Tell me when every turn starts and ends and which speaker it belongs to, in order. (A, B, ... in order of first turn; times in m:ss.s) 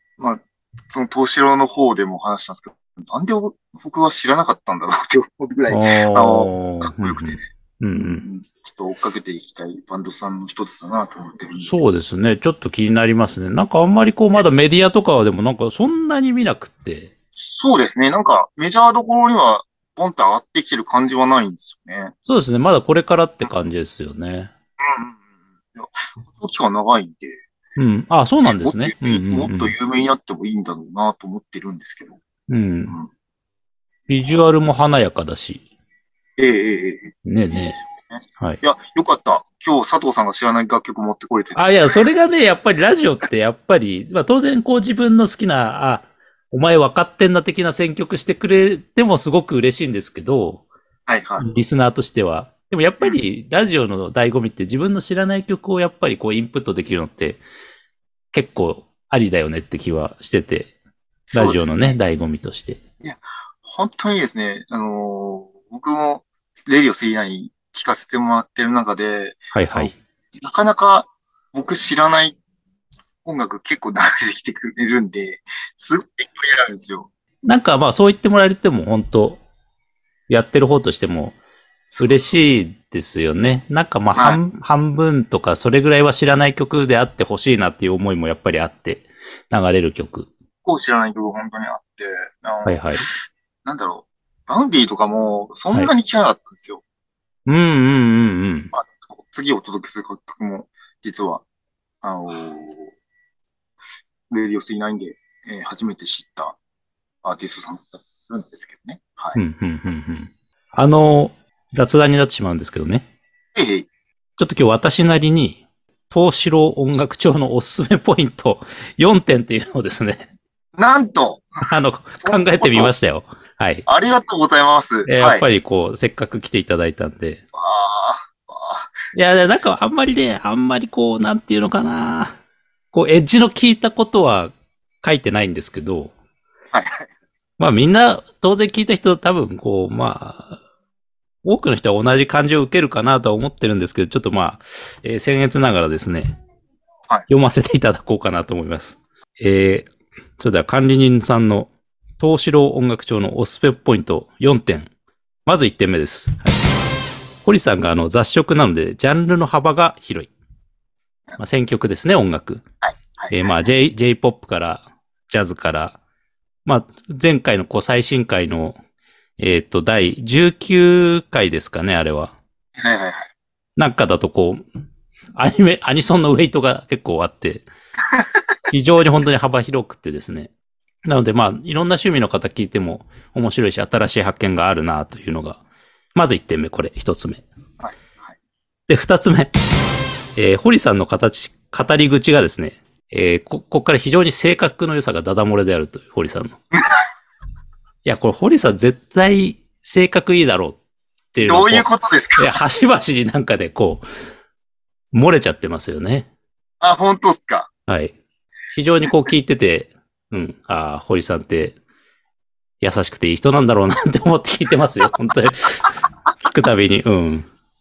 0:00.2-0:07.4 A
0:05.7-0:08.2 B
0:08.0-0:11.8 A
0:11.6-0:17.1 B
0:17.4-0:22.1 A
0:22.2-0:24.5 B
0:24.8-0:25.2 A
0:25.7-0:27.4 A
0:27.8-0:29.7 B
0:28.4-0:32.2 A
0:32.5-0:32.9 B
0:34.1-0:35.6 B
0:36.4-0:42.0 A
0:37.2-0:37.8 B
0:41.5-0:50.6 B
0:51.1-0:51.5 A
0:51.4-0:57.4 B
0:58.3-1:00.7 B
1:01.3-1:02.0 A
1:01.3-1:02.8 B
1:03.0-1:12.4 A
1:09.5-1:09.9 B
1:13.2-1:17.1 A
1:17.4-1:19.4 B
1:20.3-1:21.4 B
1:21.9-1:22.5 A
1:22.0-1:30.3 B
1:30.6-1:33.1 A
1:32.6-1:33.0 B
1:33.6-1:36.8 A
1:37.5-1:38.7 B
1:38.7-1:41.4 A
1:42.0-1:42.9 A
1:44.3-1:46.6 A
1:47.2-1:49.4 A
1:49.4-1:53.0 B
1:53.5-1:53.9 A
1:54.4-2:00.3 B
2:00.8-2:01.6 A
2:01.6-2:03.8 B
2:02.2-2:02.9 A
2:03.9-2:05.4 A
2:05.1-2:07.4 B
2:07.5-2:08.9 A
2:09.1-2:12.3 B
2:12.9-2:16.1 B
2:16.7-2:17.0 A
2:17.6-2:20.6 B
2:21.4-2:26.4 B
2:27.3-2:34.9 B
2:35.4-2:36.6 B
2:37.4-2:40.3 B
2:41.4-2:42.6 B
2:42.8-2:43.6 A
2:43.3-2:46.0 B
2:46.6-2:48.8 B
2:49.4-2:52.3 B
2:52.8-2:53.3 A
2:53.8-2:54.6 B
2:55.4-2:57.6 B
2:58.0-2:58.6 A
2:58.7-3:00.5 B
3:01.0-3:05.6 B
3:06.1-3:07.4 B
3:07.8-3:08.3 A
3:08.9-3:09.5 B
3:10.4-3:16.6 B
3:16.7-3:17.0 A
3:18.0-3:20.8 B
3:21.3-3:24.0 B
3:21.4-3:22.5 A
3:25.1-3:26.3 B
3:26.8-3:27.7 A
3:27.9-3:28.1 B
3:28.7-3:31.8 B
3:32.8-3:37.5 B